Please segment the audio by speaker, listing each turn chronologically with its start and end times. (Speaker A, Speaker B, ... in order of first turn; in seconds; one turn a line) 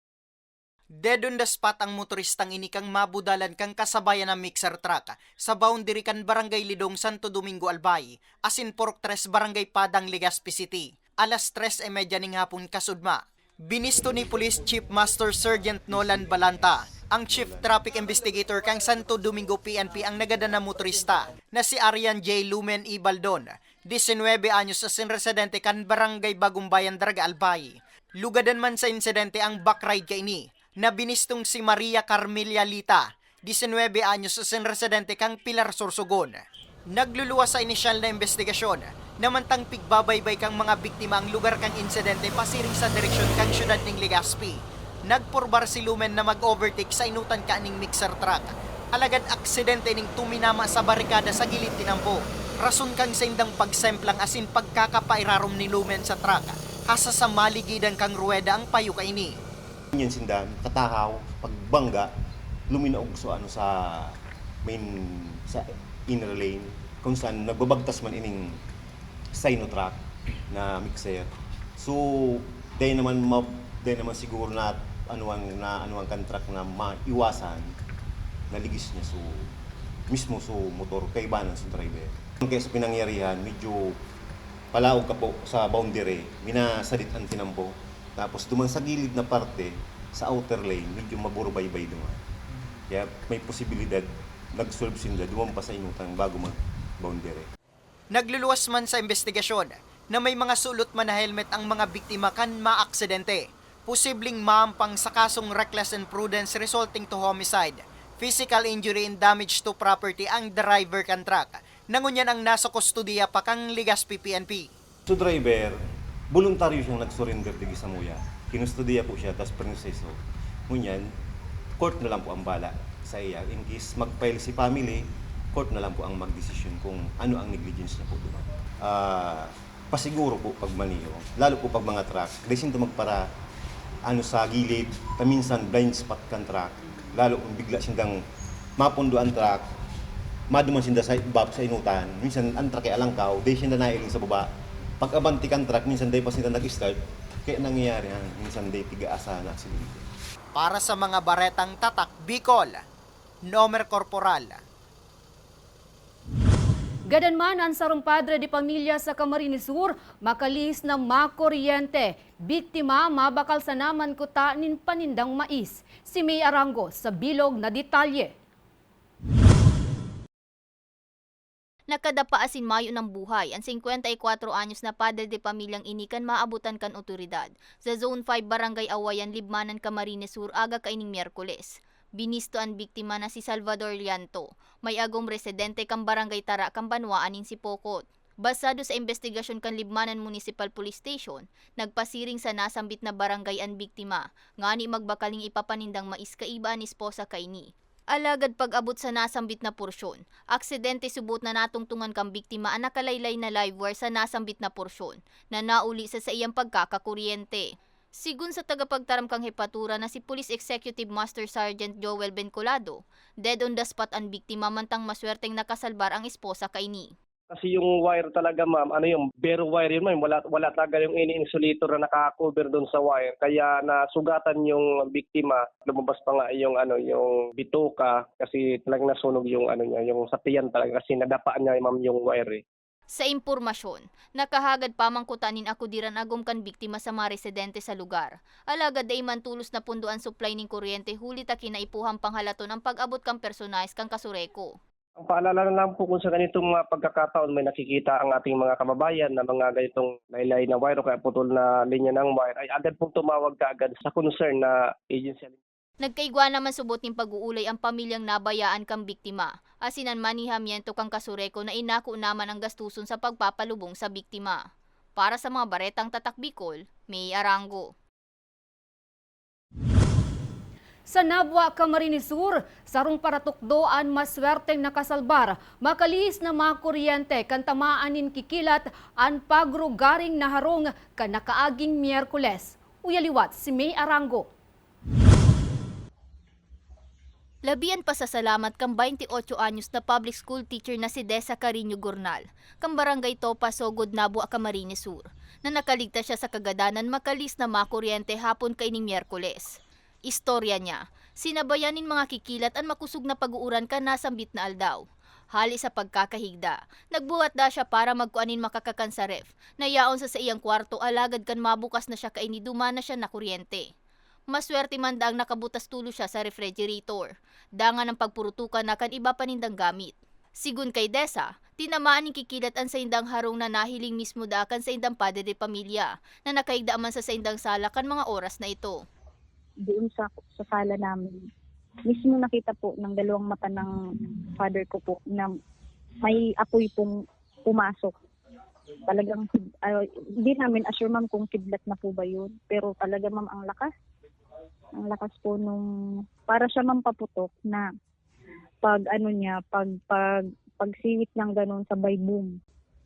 Speaker A: 1.0-36.4
Speaker B: 17.4-17.6
Speaker A: 36.9-59.4
Speaker B: 59.9-62.1
Speaker B: 62.7-68.6
Speaker B: 69.3-77.7
Speaker B: 78.5-79.5
Speaker B: 80.1-84.0
Speaker B: 84.7-92.2
Speaker B: 92.9-97.5
Speaker A: 98.1-114.7
Speaker B: 115.1-115.8
Speaker B: 116.3-121.1
Speaker B: 121.8-133.2
Speaker B: 134.1-138.2
Speaker B: 138.8-139.6
Speaker B: 140.5-144.5
Speaker B: 145.0-150.1
Speaker A: 150.5-152.8
Speaker A: 153.4-154.6
Speaker C: 157.1-168.3
Speaker D: 171.9-207.7
Speaker D: 208.2-217.1
Speaker E: 217.5-232.6
Speaker D: 233.1-244.7
Speaker E: 245.2-255.6
Speaker D: 256.0-264.6
Speaker D: 265.2-267.9
Speaker C: 271.1-284.5
Speaker D: 287.6-299.7
Speaker D: 300.3-305.0
Speaker D: 305.5-313.9
Speaker D: 314.5-329.0
Speaker F: 329.9-331.4
Speaker F: 332.1-335.5
Speaker F: 336.2-337.2
Speaker F: 337.7-338.1
Speaker F: 339.1-343.9
Speaker F: 345.0-345.8
Speaker F: 346.5-347.9
Speaker F: 348.8-352.5